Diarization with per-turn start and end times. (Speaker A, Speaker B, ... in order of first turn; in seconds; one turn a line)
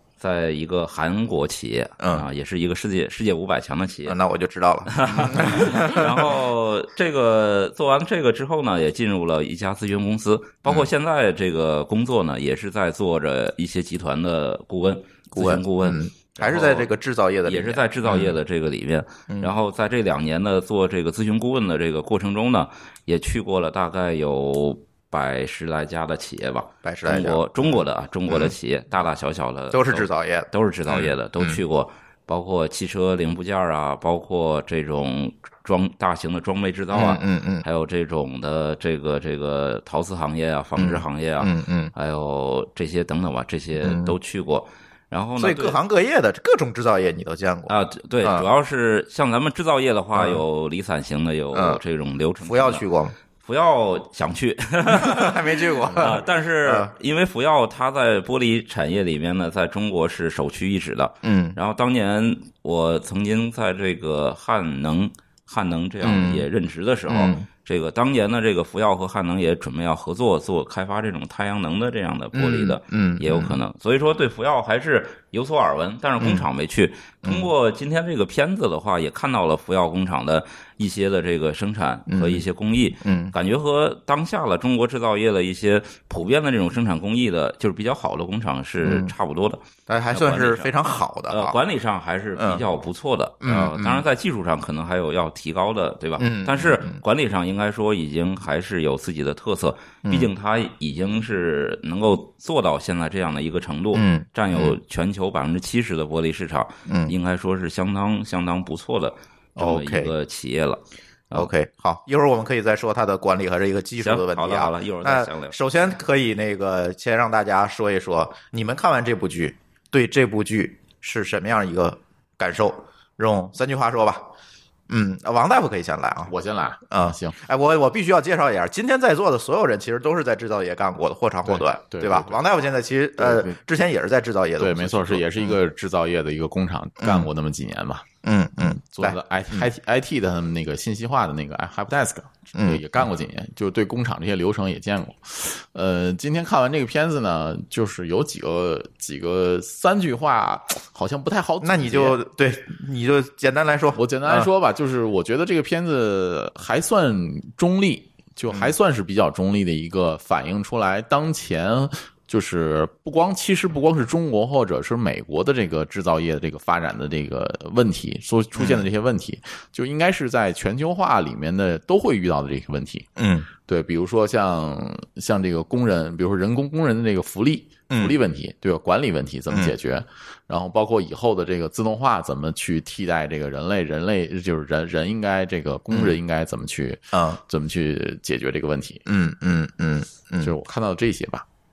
Speaker A: 0.2-4.2
Speaker B: 2.0-2.2
Speaker B: 4.0-6.3
Speaker A: 4.9-16.9
Speaker B: 15.3-18.4
Speaker A: 17.5-45.8
Speaker B: 26.8-27.7
Speaker B: 28.3-28.5
Speaker B: 29.7-31.6
Speaker B: 36.9-37.6
Speaker B: 40.8-41.9
Speaker B: 43.8-44.1
Speaker B: 45.4-48.5
Speaker A: 47.7-52.8
Speaker B: 50.1-50.4
Speaker B: 51.5-51.8
Speaker B: 52.4-53.1
Speaker A: 53.4-90.7
Speaker B: 54.9-56.9
Speaker B: 61.2-61.6
Speaker B: 66.0-66.5
Speaker B: 67.1-67.5
Speaker B: 72.3-73.5
Speaker B: 76.2-76.5
Speaker B: 77.2-77.5
Speaker B: 82.1-82.4
Speaker B: 83.0-83.3
Speaker B: 88.8-89.1
Speaker B: 89.9-91.6
Speaker A: 91.3-111.5
Speaker B: 92.4-92.6
Speaker B: 93.4-94.0
Speaker B: 96.2-97.0
Speaker B: 103.9-104.8
Speaker B: 106.9-107.1
Speaker B: 109.6-110.1
Speaker B: 111.3-124.3
Speaker A: 114.0-115.6
Speaker B: 124.9-126.3
Speaker C: 126.2-127.4
Speaker B: 126.9-135.6
Speaker C: 131.4-132.4
Speaker C: 133.2-133.5
Speaker C: 134.6-138.1
Speaker B: 137.0-137.3
Speaker B: 138.2-139.7
Speaker C: 138.7-152.2
Speaker B: 142.5-143.1
Speaker B: 151.6-154.5
Speaker C: 153.9-173.1
Speaker B: 168.6-168.8
Speaker B: 173.2-173.5
Speaker C: 173.6-189.0
Speaker B: 177.9-178.2
Speaker B: 185.9-186.2
Speaker B: 187.1-187.4
Speaker B: 189.1-190.5
Speaker C: 190.4-191.4